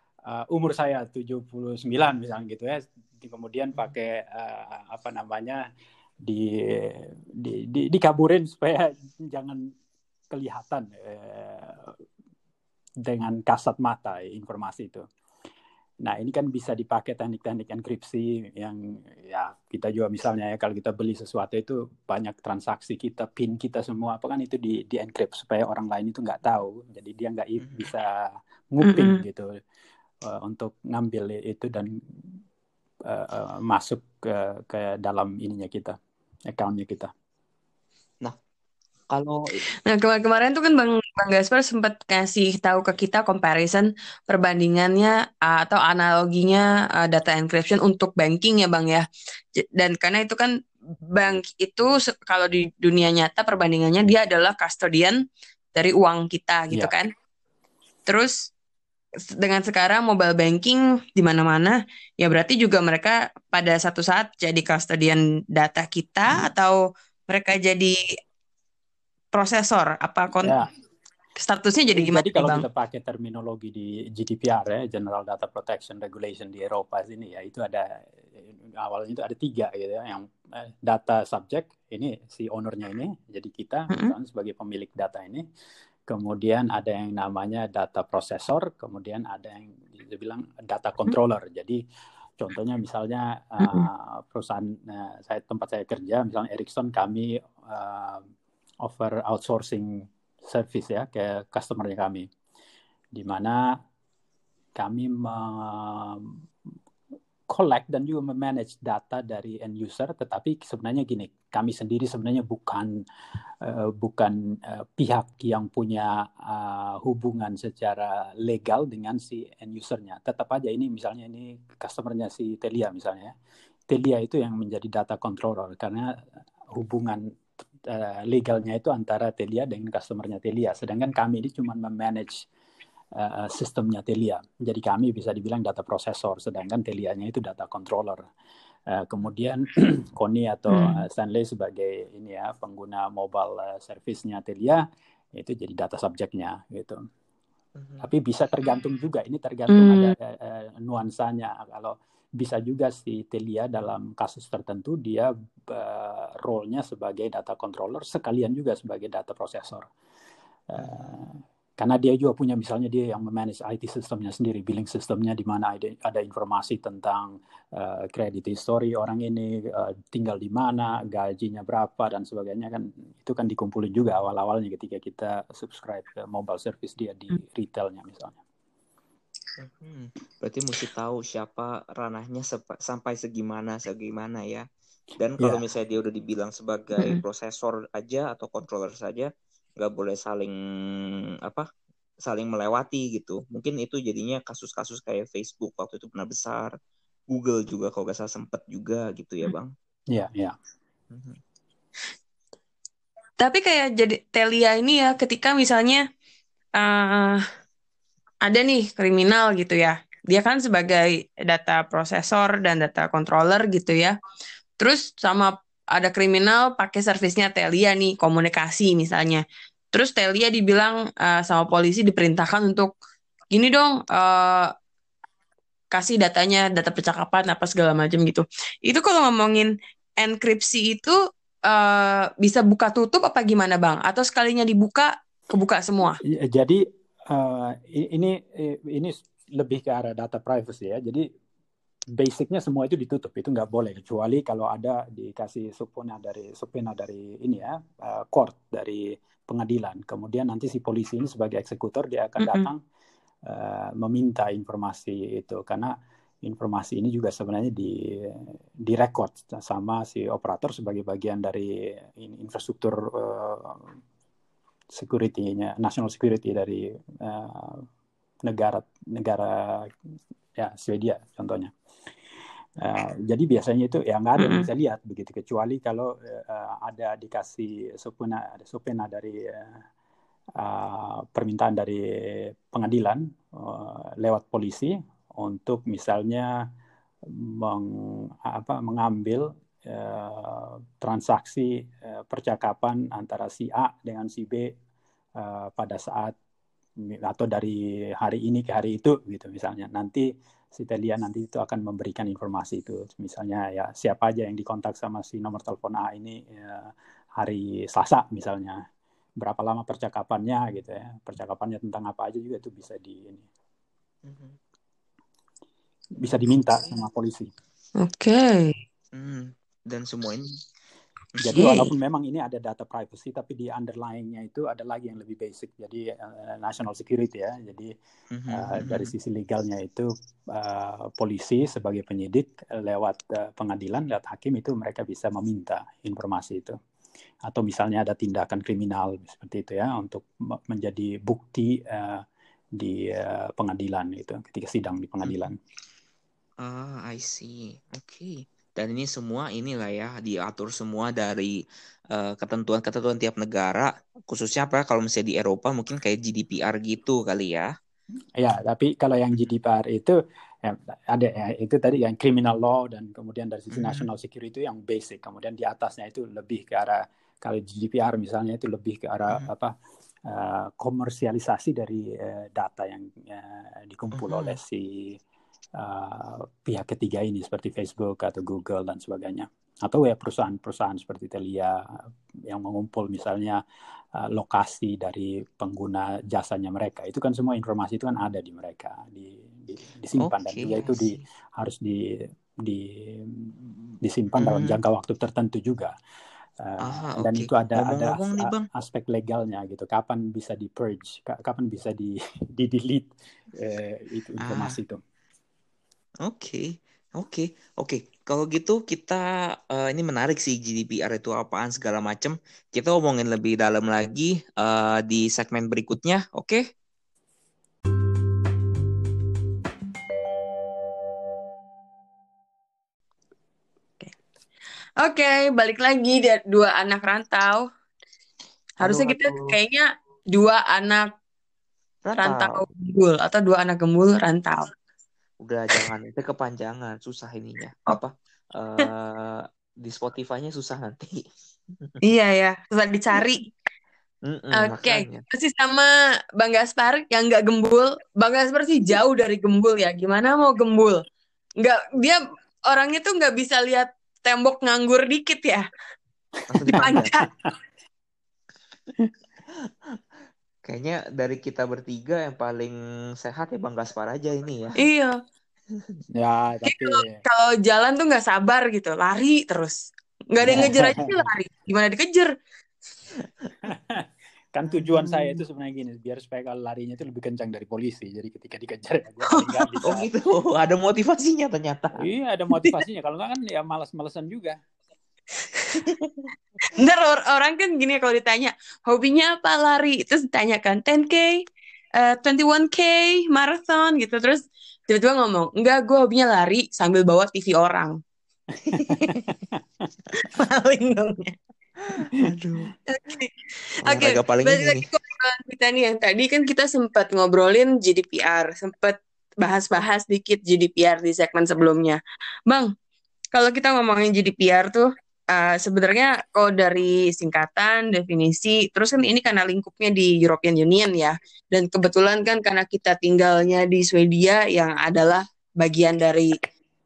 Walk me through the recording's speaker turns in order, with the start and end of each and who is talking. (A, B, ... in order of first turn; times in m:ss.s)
0:00.3-0:05.6 A
0:06.2-0:09.7 A
0:10.3-0:12.0 A
0:13.0-0:15.0 A
0:16.0-0:29.5 A
0:27.6-0:27.9 B
0:28.8-0:29.2 C
0:30.2-0:31.9 A
0:33.1-0:36.0 A
0:36.5-0:37.1 A
0:39.1-0:39.6 B
0:39.8-0:49.0 C
0:49.6-0:50.5 C
0:51.1-0:55.2 C
0:55.8-0:57.1 C
0:58.1-0:58.5 C
0:59.3-1:08.0 C
1:09.3-1:10.6 C
1:10.4-1:10.7 A
1:11.4-1:12.6 C
1:11.9-1:25.4 A
1:26.1-1:31.8 A
1:32.4-1:38.2 A
1:38.8-1:39.9 A
1:40.4-1:42.3 A
1:43.1-1:43.6 A
1:44.8-1:46.3 A
1:47.5-1:52.9 A
1:53.6-2:03.3 A
2:03.9-2:06.1 A
2:06.7-2:07.2 A
2:07.9-2:12.5 A
2:13.2-2:18.2 A
2:18.9-2:24.8 A
2:20.7-2:21.0 C
2:25.4-2:27.0 A
2:27.8-2:28.1 B
2:28.0-2:39.9 A
2:29.7-2:30.1 C
2:40.7-2:58.4 A
2:40.8-2:41.1 B
2:59.6-3:04.7 B
3:05.2-3:11.7 B
3:12.2-3:16.8 B
3:17.3-3:19.7 B
3:20.1-3:20.6 A
3:21.1-3:21.4 B
3:23.4-3:26.0 C
3:26.8-3:27.4 C
3:28.4-3:34.2 C
3:34.8-3:42.9 C
3:43.5-3:44.7 C
3:45.9-3:56.2 C
3:56.3-4:01.2 A
4:02.2-4:12.8 A
4:12.4-4:12.7 C
4:13.5-4:23.9 A
4:24.9-4:27.9 A
4:28.4-4:29.9 A
4:30.6-4:31.7 A
4:32.8-4:39.8 A
4:34.4-4:34.7 C
4:40.6-4:46.5 A
4:47.3-4:54.7 A
4:55.4-4:56.4 A
4:57.0-5:08.8 A
5:09.4-5:13.5 A
5:14.2-5:14.6 B
5:16.2-5:17.5 A
5:18.0-5:18.7 C
5:19.2-5:20.6 B
5:21.4-5:21.9 B
5:21.4-5:27.9 A
5:28.3-5:29.1 B
5:28.5-5:36.8 A
5:37.5-5:42.2 A
5:42.8-5:45.6 A
5:46.6-5:51.6 B
5:52.1-5:57.7 B
5:58.4-6:09.8 A
6:03.7-6:04.1 B
6:10.3-6:15.2 A
6:14.2-6:14.6 B
6:15.8-6:21.8 A
6:22.5-6:23.6 A
6:24.2-6:32.0 A
6:30.2-6:31.2 B
6:32.6-6:35.9 A
6:34.4-6:34.8 B
6:36.6-6:45.0 A
6:36.8-6:38.7 B
6:44.4-6:44.8 B
6:46.2-6:56.6 B
7:05.0-7:07.6 C
7:08.8-7:11.1 C
7:08.8-7:09.5 B
7:12.0-7:12.6 B
7:12.2-7:14.7 C
7:15.4-7:21.2 B
7:22.0-7:23.5 C
7:24.3-7:25.2 B
7:24.6-7:31.0 C
7:31.6-7:35.6 C
7:36.5-7:37.2 B
7:36.7-7:37.3 C
7:40.6-7:44.8 B
7:44.8-7:45.2 C
7:46.2-7:47.2 A
7:46.7-7:52.3 C
7:50.4-7:51.2 A
7:53.7-8:00.1 A
7:59.3-7:59.5 C
7:59.8-8:02.0 B
8:02.0-8:04.6 A
8:05.8-8:06.2 B
8:06.7-8:11.4 C
8:12.0-8:18.0 C
8:18.7-8:19.3 A
8:20.2-8:21.4 C
8:21.9-8:22.7 B
8:22.9-8:32.7 C
8:23.8-8:24.9 B
8:33.3-8:46.3 C